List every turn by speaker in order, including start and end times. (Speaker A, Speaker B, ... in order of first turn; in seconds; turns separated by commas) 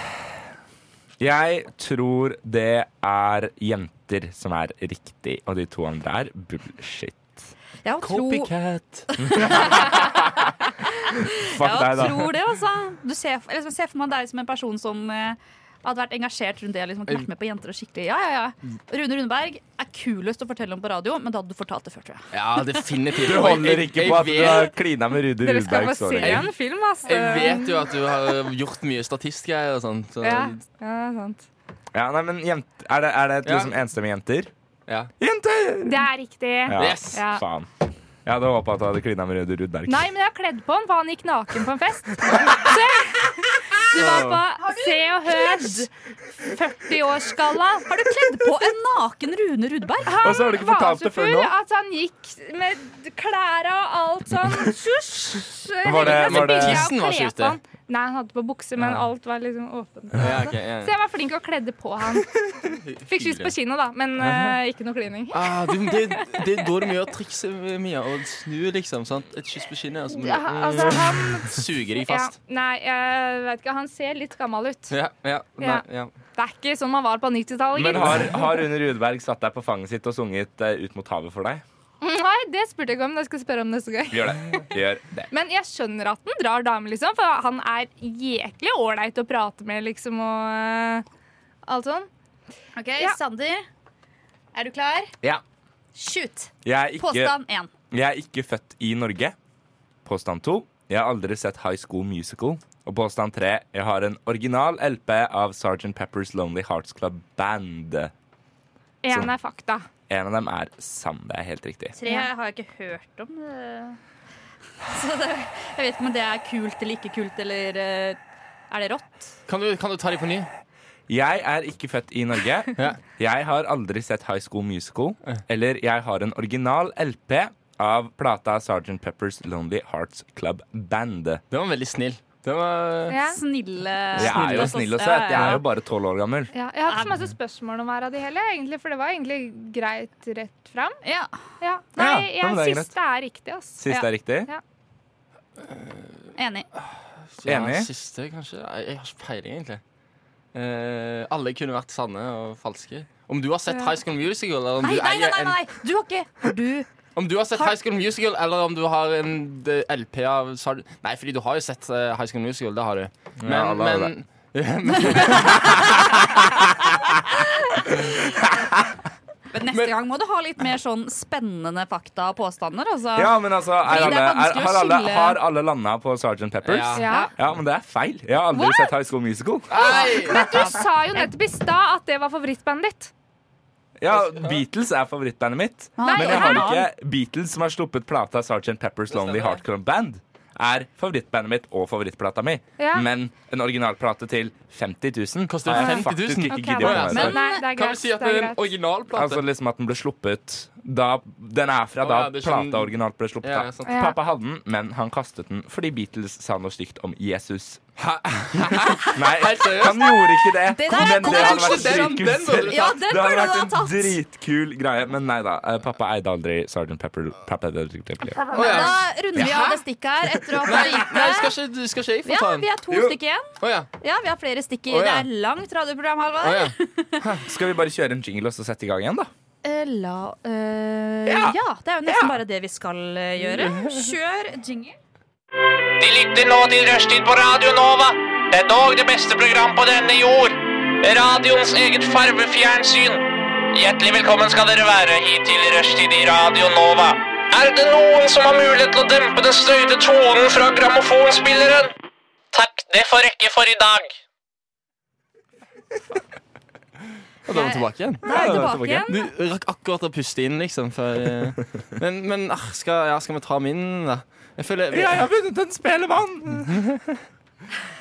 Speaker A: 1.2-7.5, Speaker B: 7.8-8.5, Speaker C: 8.0-9.7, Speaker B: 9.1-22.2, Speaker A: 9.3-10.2, Speaker A: 11.3-12.3, Speaker C: 22.3-24.7, Speaker A: 23.2-26.5, Speaker D: 25.4-27.9, Speaker C: 26.2-26.5, Speaker C: 27.0-30.6, Speaker D: 30.2-31.4, Speaker A: 31.9-34.5, Speaker C: 33.4-33.7, Speaker A: 35.2-36.1, Speaker D: 35.8-37.4, Speaker A: 36.6-37.7, Speaker C: 36.8-37.1, Speaker A: 38.2-40.1, Speaker D: 39.9-45.9, Speaker C: 43.9-44.4, Speaker B: 44.6-45.9, Speaker D: 46.4-47.9, Speaker B: 47.9-50.1, Speaker D: 50.0-62.4, Speaker A: 50.2-51.5, Speaker A: 55.8-56.9, Speaker C: 56.0-57.6, Speaker C: 60.1-60.9, Speaker C: 62.7-63.5, Speaker D: 63.1-65.8, Speaker C: 64.2-64.6, Speaker C: 65.3-72.3, Speaker D: 70.2-74.9, Speaker C: 74.9-76.1, Speaker D: 75.6-75.8, Speaker D: 76.4-78.3, Speaker A: 77.7-81.6, Speaker C: 78.0-78.2, Speaker D: 82.0-84.7, Speaker A: 84.1-85.3, Speaker D: 85.3-91.0, Speaker D: 91.7-92.1, Speaker B: 92.8-93.6, Speaker B: 94.5-95.1, Speaker B: 95.9-97.7, Speaker A: 96.6-97.4, Speaker A: 97.9-99.3, Speaker A: 100.0-108.1, Speaker D: 109.0-109.8, Speaker A: 110.1-111.9, Speaker B: 112.0-114.0, Speaker D: 112.0-112.3, Speaker B: 114.8-118.2, Speaker B: 118.7-119.3, Speaker C: 119.5-120.5, Speaker A: 121.1-131.4, Speaker C: 131.5-133.2, Speaker D: 133.1-133.4, Speaker B: 133.2-135.6, Speaker A: 134.2-136.5, Speaker C: 134.2-134.7, Speaker D: 136.5-141.0, Speaker B: 136.9-137.1, Speaker B: 141.0-141.3, Speaker D: 141.6-144.6, Speaker A: 142.0-142.9, Speaker A: 143.8-144.5, Speaker C: 145.6-146.2, Speaker B: 146.4-146.7, Speaker C: 147.3-149.8, Speaker A: 147.4-147.9, Speaker C: 150.5-155.6, Speaker B: 154.8-156.9, Speaker C: 157.1-165.8, Speaker A: 163.4-164.1, Speaker B: 165.2-165.7, Speaker B: 169.5-175.4, Speaker A: 173.2-180.1, Speaker C: 176.6-177.0, Speaker D: 176.9-177.3, Speaker B: 177.1-177.3, Speaker D: 178.5-178.9, Speaker C: 179.7-180.6, Speaker D: 179.8-183.1, Speaker A: 184.0-197.4, Speaker C: 184.1-184.6, Speaker B: 186.0-186.9, Speaker D: 186.0-186.7, Speaker C: 189.1-189.6, Speaker D: 192.8-193.1, Speaker C: 195.5-199.4, Speaker D: 195.7-198.7, Speaker B: 197.1-197.6, Speaker A: 199.1-207.8, Speaker C: 202.0-202.9, Speaker C: 203.4-204.0, Speaker D: 203.9-204.2, Speaker C: 208.0-210.2, Speaker A: 209.1-219.8, Speaker B: 210.7-214.2, Speaker C: 210.9-213.0, Speaker B: 218.5-221.5, Speaker C: 218.5-219.8, Speaker C: 220.6-222.7, Speaker B: 222.2-227.2, Speaker A: 222.9-223.2, Speaker C: 223.6-223.9, Speaker C: 224.9-225.3, Speaker C: 226.4-227.4, Speaker A: 227.4-229.3, Speaker B: 229.6-234.9, Speaker A: 231.2-232.4, Speaker C: 233.4-234.1, Speaker E: 236.0-251.9, Speaker E: 252.5-254.1, Speaker C: 257.4-265.2, Speaker B: 257.5-259.2, Speaker A: 258.2-259.1, Speaker A: 264.9-266.8